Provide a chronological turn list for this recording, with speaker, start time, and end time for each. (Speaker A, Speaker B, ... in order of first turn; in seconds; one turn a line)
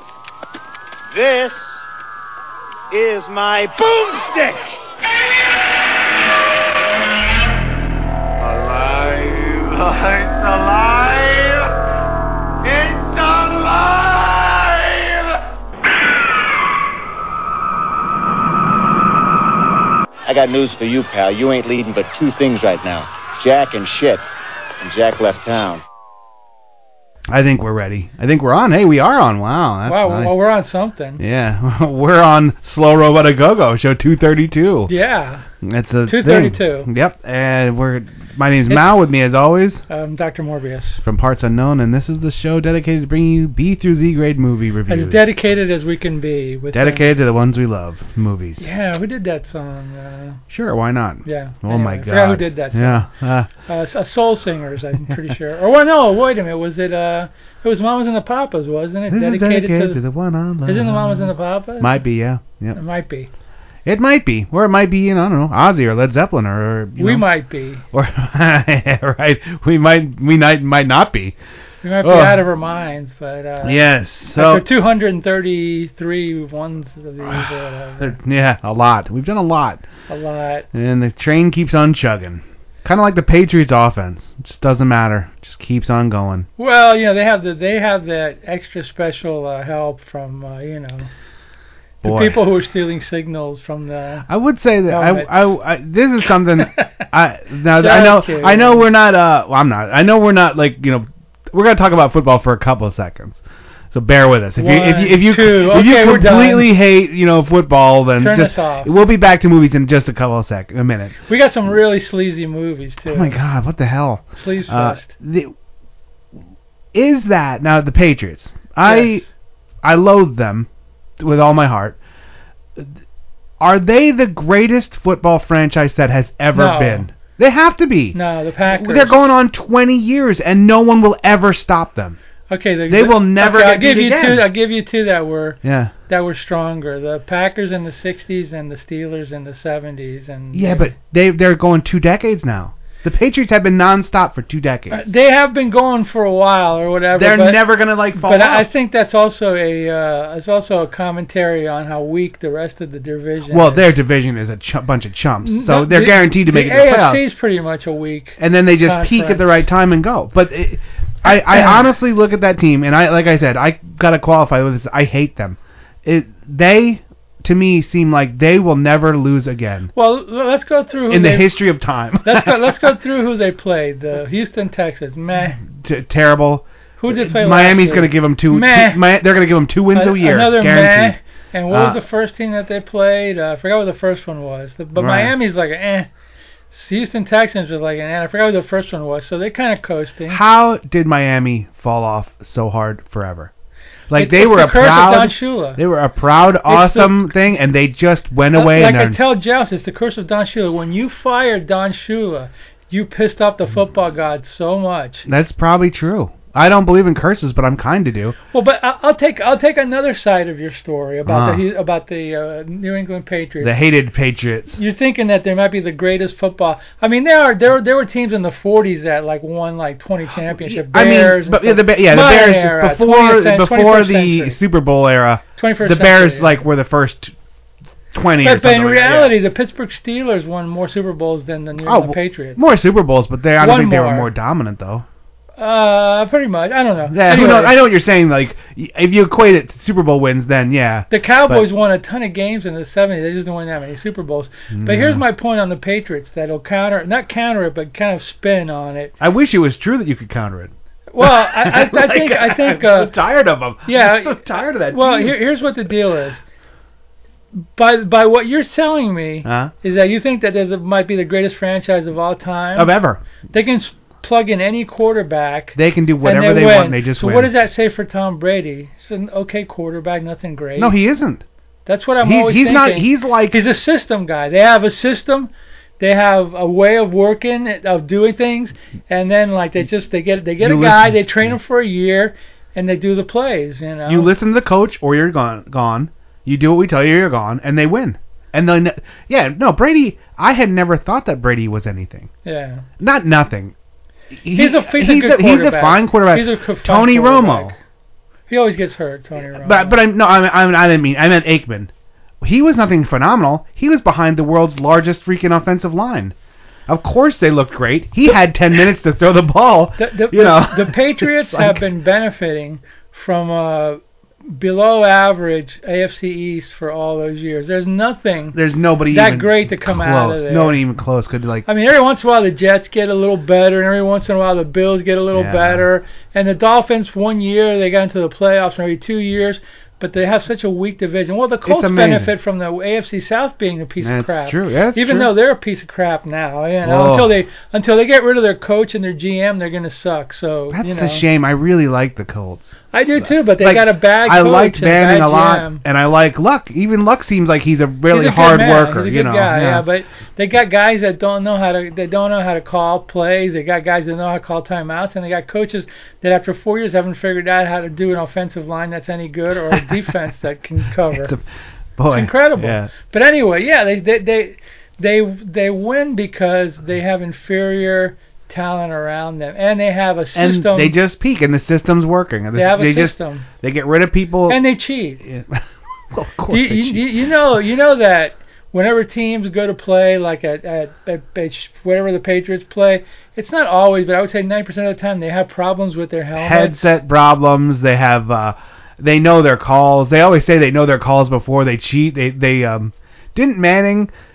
Speaker A: 1.1-1.9
Speaker A: 2.9-4.8
Speaker A: 8.4-11.6
Speaker A: 12.6-15.2
Speaker A: 20.2-24.2
Speaker A: 24.8-25.8
Speaker B: 27.3-30.3
Speaker C: 29.8-31.2
Speaker B: 31.2-34.9
Speaker C: 34.9-35.4
Speaker B: 35.6-39.8
Speaker C: 36.1-36.9
Speaker C: 39.9-41.0
Speaker B: 41.0-45.3
Speaker C: 44.9-47.0
Speaker B: 46.7-48.6
Speaker C: 48.6-50.4
Speaker B: 50.5-53.5
Speaker C: 51.2-53.1
Speaker C: 53.6-60.0
Speaker B: 59.1-62.8
Speaker C: 60.7-62.0
Speaker C: 62.7-63.3
Speaker B: 63.8-67.2
Speaker C: 67.0-67.8
Speaker B: 67.9-71.3
Speaker C: 71.8-78.1
Speaker B: 72.0-72.4
Speaker B: 73.6-74.6
Speaker B: 77.2-79.8
Speaker C: 80.1-80.7
Speaker B: 80.7-86.5
Speaker C: 86.6-91.1
Speaker B: 92.0-92.4
Speaker C: 92.0-94.3
Speaker B: 94.3-103.4
Speaker C: 94.9-95.5
Speaker C: 97.7-98.9
Speaker B: 103.9-111.2
Speaker C: 104.6-106.7
Speaker C: 108.2-108.9
Speaker C: 111.3-113.4
Speaker B: 113.0-115.5
Speaker C: 114.3-115.1
Speaker B: 116.9-119.2
Speaker C: 118.8-119.2
Speaker B: 119.8-122.0
Speaker B: 123.6-132.2
Speaker C: 126.5-127.1
Speaker C: 128.1-129.2
Speaker C: 132.5-140.9
Speaker B: 132.9-134.5
Speaker B: 135.6-135.9
Speaker B: 140.5-145.0
Speaker C: 144.9-153.8
Speaker B: 147.1-148.7
Speaker B: 153.5-157.3
Speaker C: 155.4-159.7
Speaker B: 158.4-169.9
Speaker C: 161.2-161.8
Speaker C: 169.9-171.5
Speaker B: 171.1-172.9
Speaker C: 172.2-175.6
Speaker B: 175.3-181.2
Speaker C: 177.0-179.0
Speaker C: 179.9-186.1
Speaker B: 181.7-182.0
Speaker B: 184.9-185.3
Speaker C: 186.7-190.4
Speaker B: 190.3-193.5
Speaker B: 194.1-199.2
Speaker C: 194.2-195.8
Speaker C: 196.7-197.3
Speaker C: 198.5-205.3
Speaker B: 205.2-208.3
Speaker C: 208.5-213.7
Speaker B: 211.2-211.6
Speaker B: 213.6-214.8
Speaker C: 214.8-224.6
Speaker B: 220.6-227.3
Speaker C: 225.6-226.6
Speaker B: 228.1-229.4
Speaker C: 228.4-232.6
Speaker B: 231.8-235.1
Speaker C: 233.6-234.3
Speaker C: 235.6-237.8
Speaker B: 237.1-241.7
Speaker C: 241.1-249.1
Speaker B: 244.7-245.2
Speaker B: 249.2-255.4
Speaker C: 251.1-253.1
Speaker C: 253.8-256.4
Speaker C: 257.6-262.9
Speaker B: 259.4-259.7
Speaker B: 262.8-263.2
Speaker C: 263.5-270.9
Speaker B: 265.7-267.5
Speaker B: 270.8-271.4
Speaker C: 271.9-284.3
Speaker B: 272.2-273.6
Speaker B: 280.6-281.5
Speaker B: 284.1-292.3
Speaker C: 292.4-292.9
Speaker B: 293.0-293.7
Speaker B: 294.4-297.7
Speaker C: 294.5-297.8
Speaker C: 298.5-300.1
Speaker B: 299.5-306.3
Speaker B: 306.9-311.8
Speaker C: 310.0-318.6
Speaker B: 318.5-321.7
Speaker C: 319.1-320.8
Speaker C: 321.7-341.2
Speaker B: 325.3-325.9
Speaker B: 331.6-332.3
Speaker B: 334.0-335.3
Speaker B: 336.8-337.3
Speaker B: 340.7-349.8
Speaker C: 342.9-345.8
Speaker C: 348.1-361.3
Speaker B: 359.7-360.0
Speaker B: 361.1-361.4
Speaker B: 362.0-362.9
Speaker C: 362.1-371.0
Speaker B: 370.3-374.6
Speaker C: 372.5-373.5
Speaker C: 374.5-375.2
Speaker B: 375.2-377.1
Speaker C: 376.5-387.0
Speaker B: 386.4-394.1